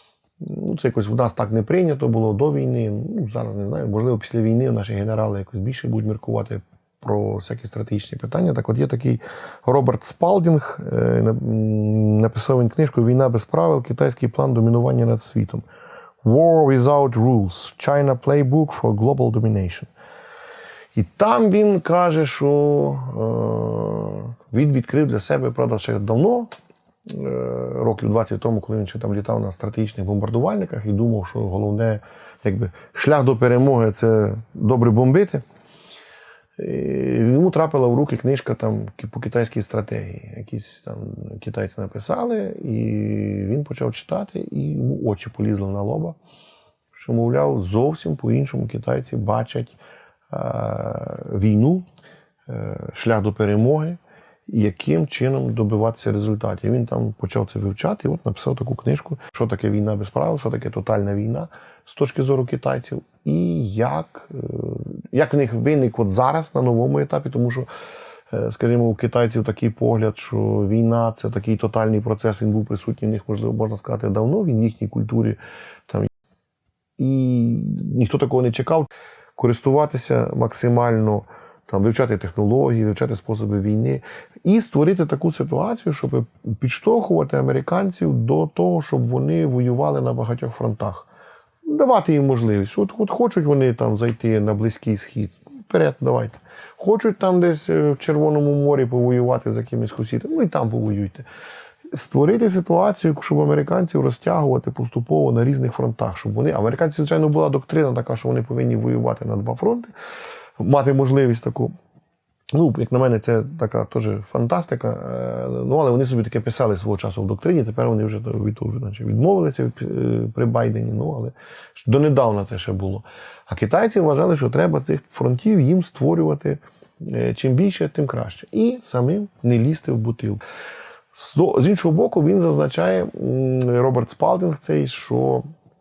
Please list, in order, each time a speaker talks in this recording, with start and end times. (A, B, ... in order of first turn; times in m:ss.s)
0:00.4-0:15.6 A
0:16.2-0:19.9 A
0:20.9-0:26.5 A
0:27.1-0:35.4 A
0:36.6-0:46.2 A
0:47.0-0:49.8 A
0:50.3-0:51.8 A
0:52.5-1:07.7 A
1:08.3-1:16.1 A
1:17.0-1:31.1 A
1:31.6-1:41.2 A
1:41.9-1:49.9 A
1:50.6-1:51.7 A
1:52.5-2:10.4 A
2:11.1-2:15.4 A